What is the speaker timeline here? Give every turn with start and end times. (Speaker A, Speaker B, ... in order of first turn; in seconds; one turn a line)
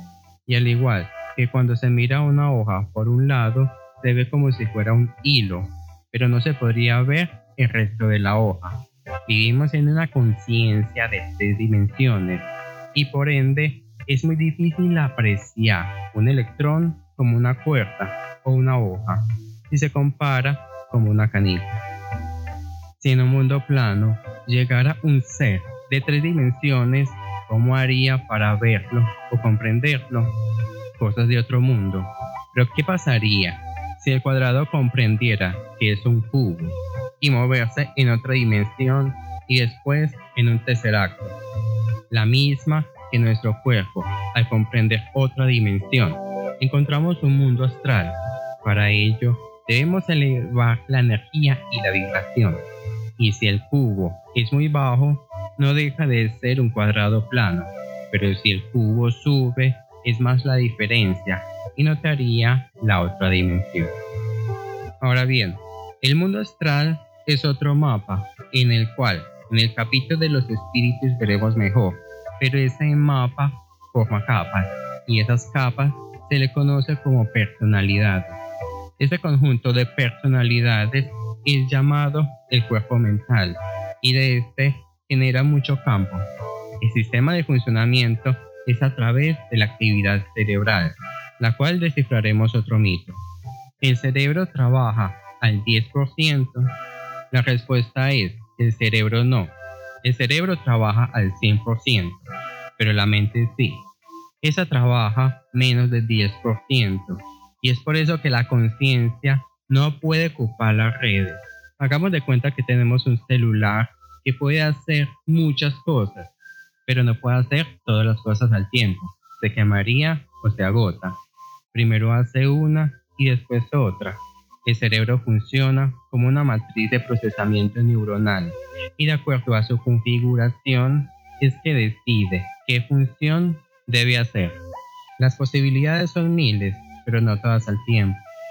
Speaker A: 0.5-21.8
Speaker A: 23.0-30.3
Speaker A: 31.0-41.4
Speaker A: 42.1-52.6
Speaker A: 53.2-63.9
Speaker A: 65.0-78.4
Speaker A: 79.0-86.2
Speaker A: 86.8-93.2
Speaker A: 93.8-96.7
Speaker A: 97.3-102.3
Speaker A: 102.8-103.8
Speaker A: 104.4-116.3
Speaker A: 116.9-121.2
Speaker A: 121.7-134.6
Speaker A: 135.2-138.2